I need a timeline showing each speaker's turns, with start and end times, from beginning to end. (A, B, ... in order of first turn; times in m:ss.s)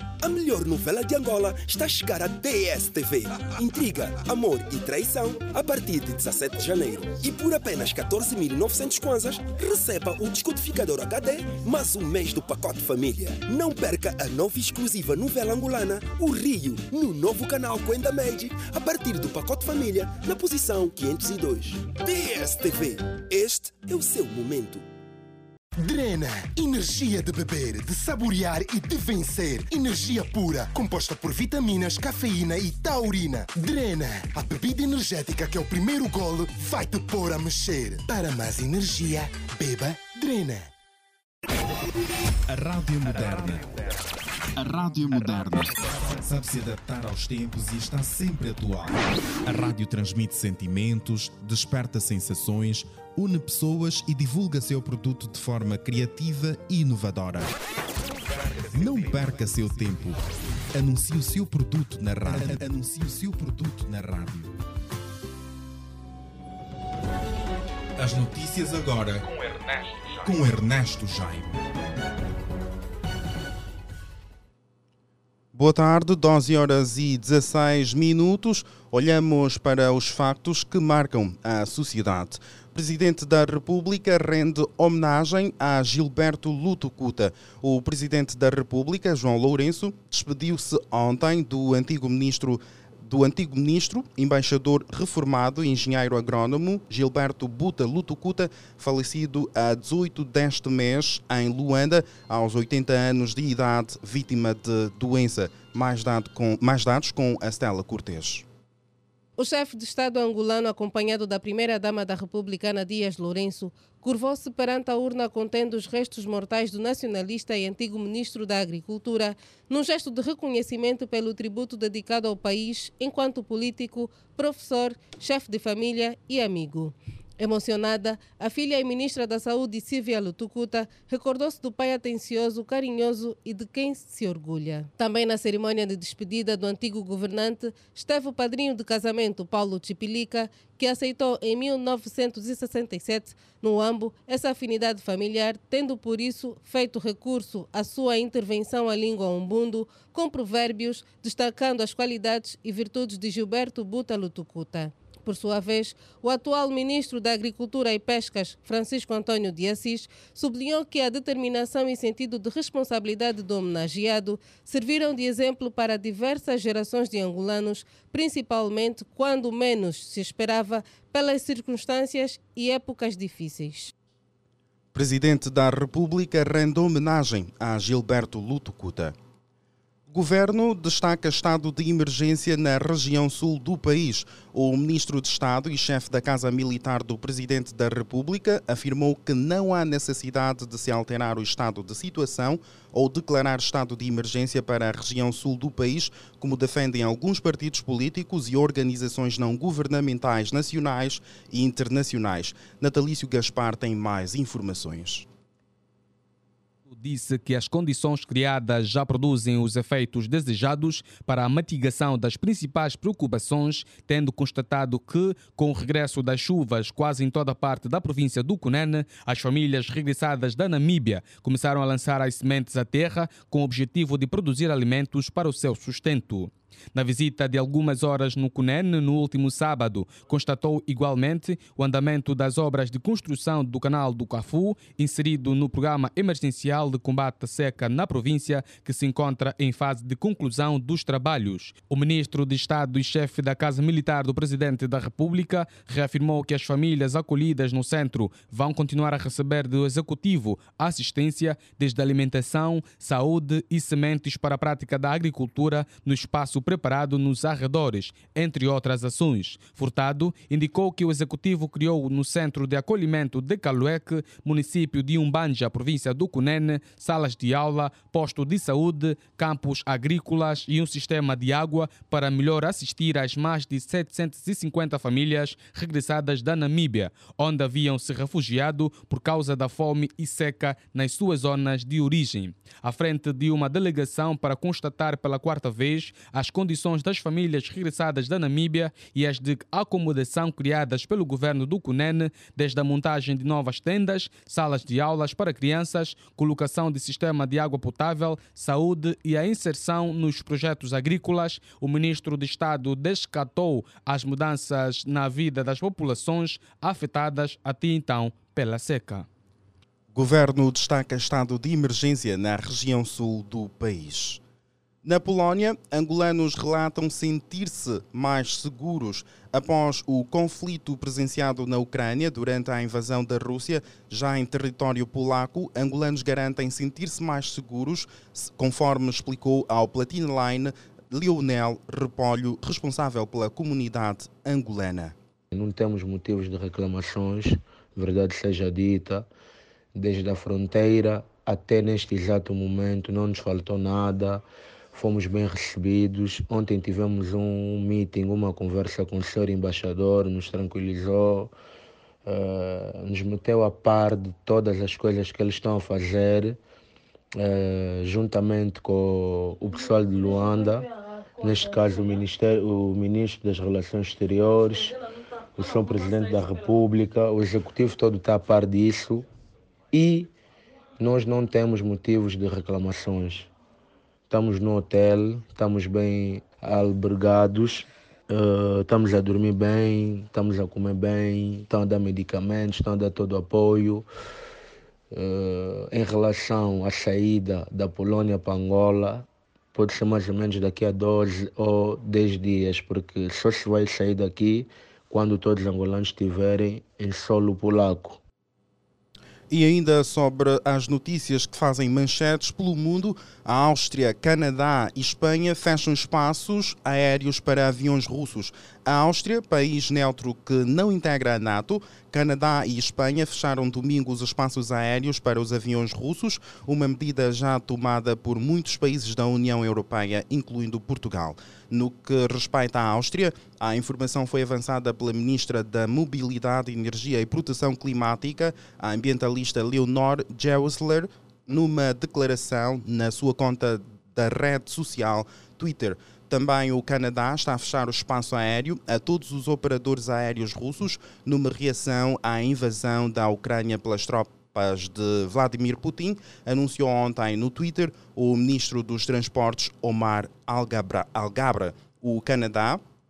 0:00.2-0:24.8 A
0:25.8-0:40.7 B
0:42.5-0:43.7 C
0:44.6-0:49.0 C
0:49.5-0:49.8 C
0:49.8-0:50.4 D
0:50.6-0:51.0 C
0:51.0-0:57.5 D
0:58.7-1:00.2 C
0:58.7-1:00.1 D
1:00.8-1:02.6 D
1:02.2-1:04.5 C
1:08.0-1:08.5 C
1:08.4-1:11.4 D
1:10.3-1:10.6 C
1:15.5-1:48.4 D
1:49.4-2:53.9 E
2:54.9-2:59.1 D
3:00.1-3:25.3 D
3:26.9-5:09.3 F
5:10.1-5:14.4 D
5:15.0-5:35.1 D
5:35.5-5:39.3 G
5:39.9-5:44.4 G
5:44.9-5:51.5 G
5:52.2-5:56.6 G
5:57.4-6:05.0 G
6:05.5-6:09.2 G
6:09.9-6:10.3 G
6:11.0-6:13.5 G
6:14.3-6:24.0 G
6:25.1-6:38.2 G
6:39.5-7:32.8 D